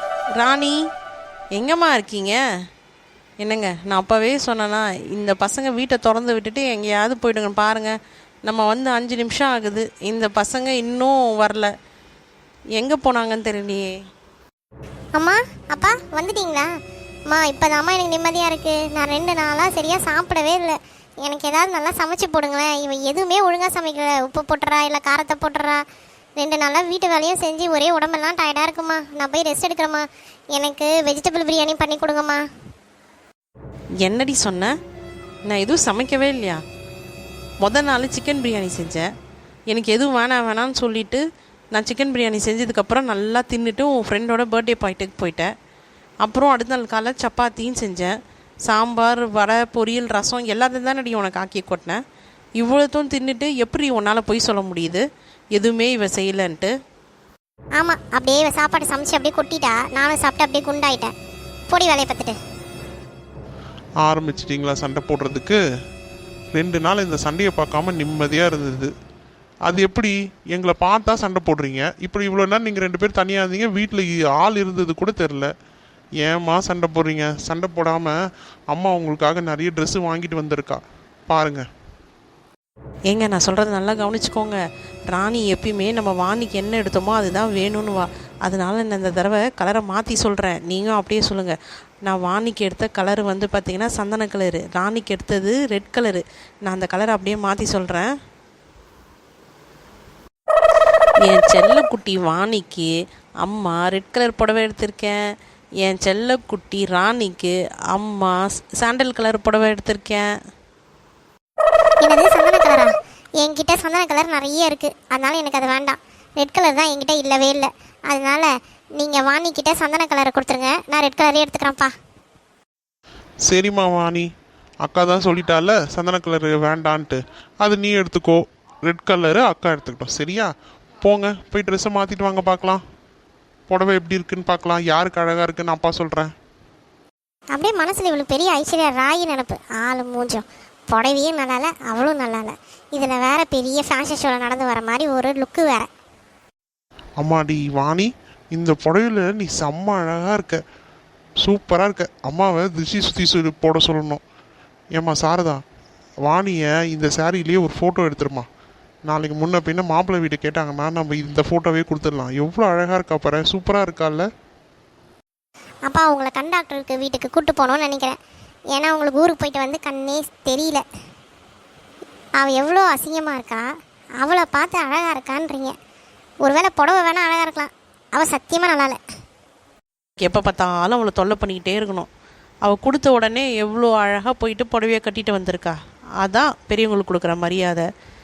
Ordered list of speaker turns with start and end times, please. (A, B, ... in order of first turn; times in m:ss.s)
0:00.4-0:00.8 A
0:01.6-0:02.4 A
0:03.4-0:07.9 A
0:08.4-0:11.7 A
0:12.8-0:13.9 A
0:15.2-0:16.7 B
0:17.3-0:25.8 B
0:26.4-0:32.4 B
0:34.0-0:34.7 A
0:35.5-0:36.6 A
0:37.6-0:39.1 A
0:39.7-0:41.2 A
0:41.7-0:45.5 A
0:46.2-0:48.1 A
0:48.7-0:52.0 A
0:52.6-0:56.7 A
0:57.8-1:01.1 B
1:01.7-1:02.4 B
1:04.0-1:05.6 C
1:06.5-1:08.9 C
1:09.6-1:15.5 C
1:16.2-1:18.1 C
1:18.7-1:21.6 C
1:23.1-1:38.1 A
1:41.2-1:42.9 A
1:43.4-1:45.2 A
1:45.8-1:50.2 A
1:52.0-2:01.9 B
2:03.5-2:04.3 C
2:04.8-2:10.5 C
2:11.0-2:12.8 C
2:13.7-2:16.3 C
2:17.5-2:25.9 B
2:27.2-2:30.6 C
2:31.4-2:34.2 C
2:34.9-2:35.6 C
2:36.3-2:38.5 C
2:39.1-2:44.3 C
2:45.9-2:48.2 B
2:48.7-2:50.8 B
2:52.4-2:53.6 B
2:54.2-2:55.7 B
2:56.4-2:59.0 B
3:00.2-3:02.1 A
3:02.6-3:07.9 A